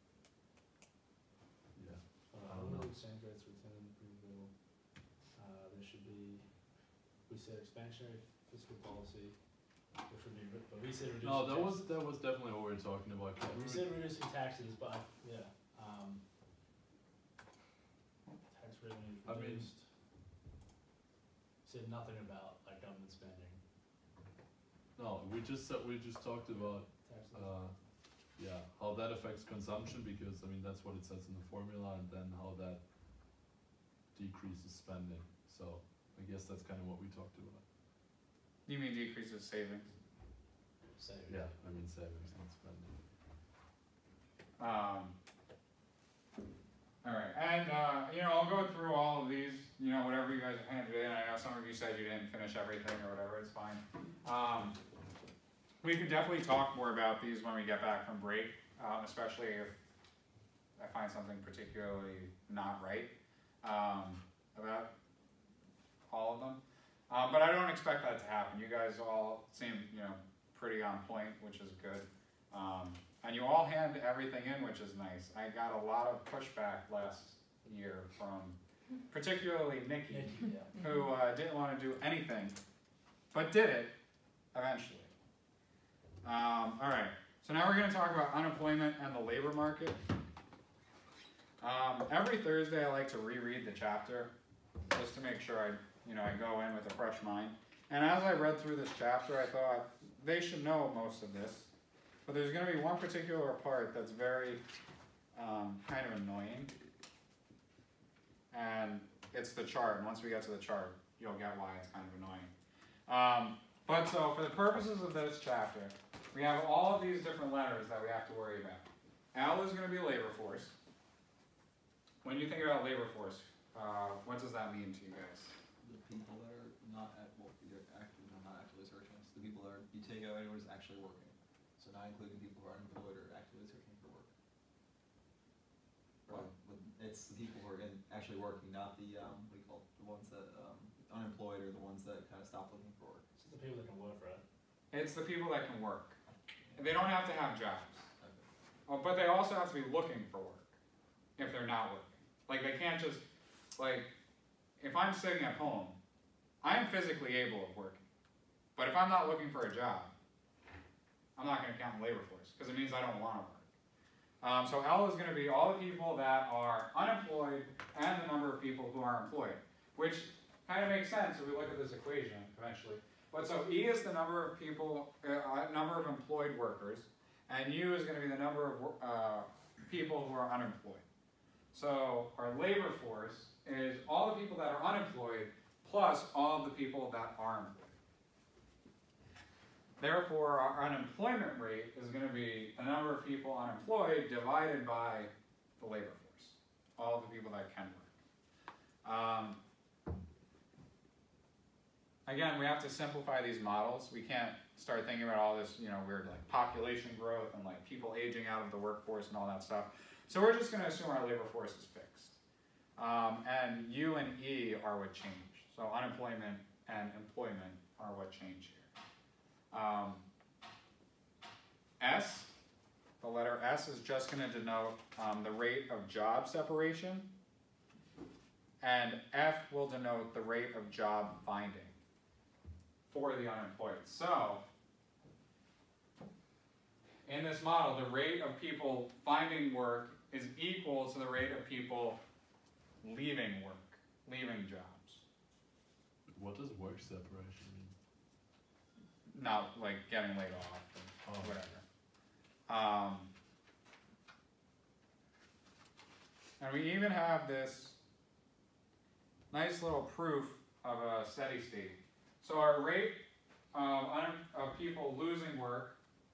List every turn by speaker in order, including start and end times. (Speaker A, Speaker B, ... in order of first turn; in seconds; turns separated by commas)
Speaker A: 1.8-3.0, Speaker B: 2.3-12.0, Speaker A: 11.2-14.0, Speaker B: 13.4-16.2, Speaker B: 18.4-19.9, Speaker A: 19.2-19.7, Speaker B: 21.6-23.6, Speaker A: 24.9-32.9, Speaker B: 26.5-27.7, Speaker A: 34.1-37.6, Speaker C: 38.7-39.9, Speaker B: 41.0-42.3, Speaker A: 41.3-43.0, Speaker C: 44.6-45.1, Speaker C: 47.0-54.8, Speaker C: 55.8-59.8, Speaker C: 60.8-64.9, Speaker C: 66.1-78.6, Speaker C: 79.1-82.6, Speaker B: 80.1-80.7, Speaker C: 83.3-83.9, Speaker C: 84.5-85.1, Speaker C: 86.2-90.0, Speaker C: 91.6-94.3, Speaker C: 94.9-101.7, Speaker C: 102.3-104.6, Speaker C: 105.3-106.7, Speaker C: 108.5-112.5, Speaker C: 113.1-120.8, Speaker C: 122.2-125.5, Speaker D: 125.8-134.3, Speaker D: 136.3-143.2, Speaker B: 143.4-144.4, Speaker C: 144.9-146.2, Speaker C: 146.8-148.1, Speaker D: 148.2-148.5, Speaker C: 148.9-150.7, Speaker C: 151.4-153.2, Speaker C: 153.8-154.1, Speaker C: 154.8-156.0, Speaker C: 156.6-158.0, Speaker C: 158.8-160.1, Speaker C: 161.4-163.7, Speaker C: 164.4-181.0, Speaker C: 181.7-187.9, Speaker C: 190.0-198.1, Speaker C: 199.0-199.6, Speaker C: 202.3-212.4, Speaker C: 213.0-218.9, Speaker C: 219.7-220.2, Speaker C: 222.0-222.5, Speaker C: 223.2-227.3, Speaker C: 228.8-232.0, Speaker C: 233.1-234.6, Speaker C: 237.3-242.2, Speaker C: 243.0-245.2, Speaker A: 246.3-247.9, Speaker C: 249.3-251.8, Speaker A: 251.2-251.6, Speaker C: 252.7-253.3, Speaker C: 256.6-258.0, Speaker C: 259.5-266.0